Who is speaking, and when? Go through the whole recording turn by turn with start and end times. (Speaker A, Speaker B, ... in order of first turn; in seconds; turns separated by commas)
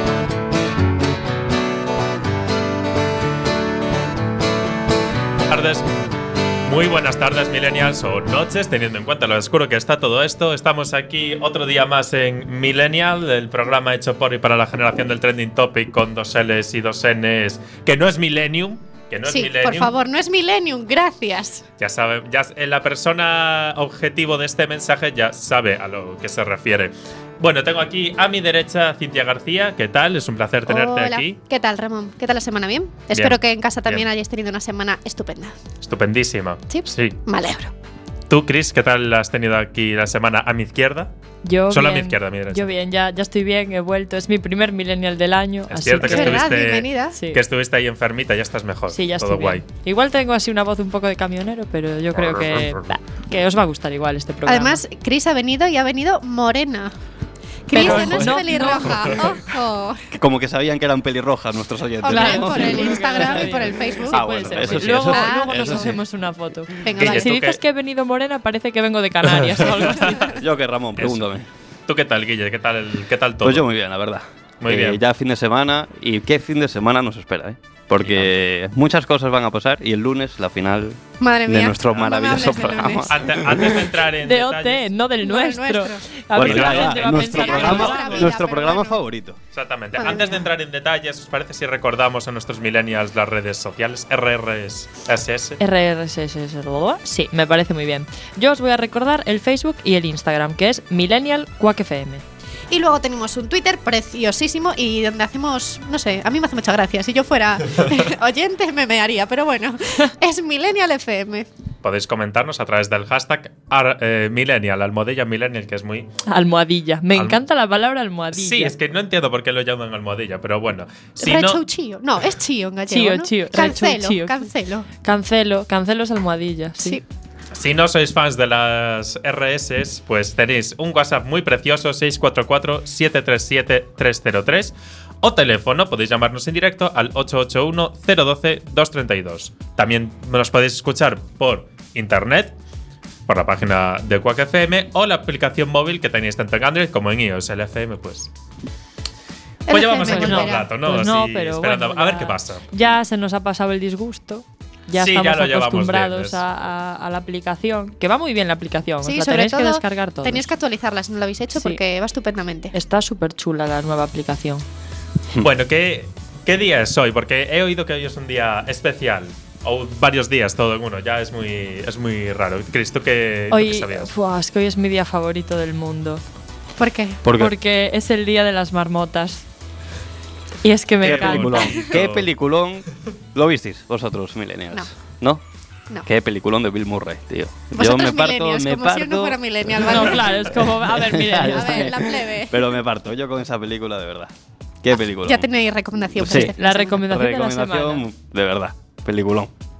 Speaker A: 5.5-5.9, Speaker A: 6.7-19.9, Speaker B: 19.3-21.6, Speaker A: 21.8-31.4, Speaker B: 30.7-35.5, Speaker A: 33.1-34.1, Speaker A: 35.8-37.2, Speaker B: 36.7-37.7, Speaker A: 38.3-41.1, Speaker C: 41.4-46.5, Speaker A: 41.7-42.7, Speaker A: 45.7-49.6, Speaker B: 46.0-47.2, Speaker C: 48.9-54.8, Speaker A: 52.3-52.9, Speaker B: 54.5-56.9, Speaker B: 57.7-60.0, Speaker C: 57.7-59.1, Speaker D: 57.8-58.4, Speaker D: 60.1-66.0, Speaker B: 62.0-66.0, Speaker C: 62.0-70.3, Speaker B: 66.8-67.3, Speaker A: 67.0-67.6, Speaker D: 70.1-71.5, Speaker A: 71.0-71.3, Speaker A: 71.9-73.7, Speaker D: 73.4-83.7, Speaker A: 74.6-75.0, Speaker A: 78.0-78.3, Speaker B: 81.2-83.1, Speaker A: 83.1-84.9, Speaker C: 84.2-88.3, Speaker B: 85.2-86.0, Speaker D: 86.3-89.4, Speaker A: 86.4-87.9, Speaker B: 87.1-89.0, Speaker A: 89.5-95.6, Speaker B: 90.0-90.4, Speaker C: 95.6-102.2, Speaker B: 102.7-111.5, Speaker A: 111.8-116.1, Speaker C: 116.3-118.7, Speaker A: 117.1-117.4, Speaker A: 118.3-121.6, Speaker B: 121.2-124.9, Speaker C: 122.9-124.5, Speaker C: 125.0-127.0, Speaker A: 127.5-142.5, Speaker A: 143.3-148.3, Speaker B: 149.7-150.7, Speaker A: 149.7-152.7, Speaker C: 150.1-160.5, Speaker A: 154.9-156.4, Speaker B: 159.0-162.7, Speaker C: 161.5-161.8, Speaker C: 162.7-164.6, Speaker A: 165.4-174.1, Speaker C: 173.5-176.2, Speaker B: 176.8-177.2, Speaker D: 177.2-177.5, Speaker C: 177.3-179.4, Speaker C: 180.6-181.7, Speaker A: 181.0-182.3, Speaker D: 181.0-185.4, Speaker D: 186.0-190.3, Speaker B: 187.7-190.7, Speaker C: 189.8-191.9, Speaker D: 190.8-194.3, Speaker B: 191.3-192.6, Speaker D: 194.8-195.5, Speaker B: 195.2-197.0, Speaker D: 196.2-196.5, Speaker C: 196.6-198.0, Speaker D: 197.1-199.5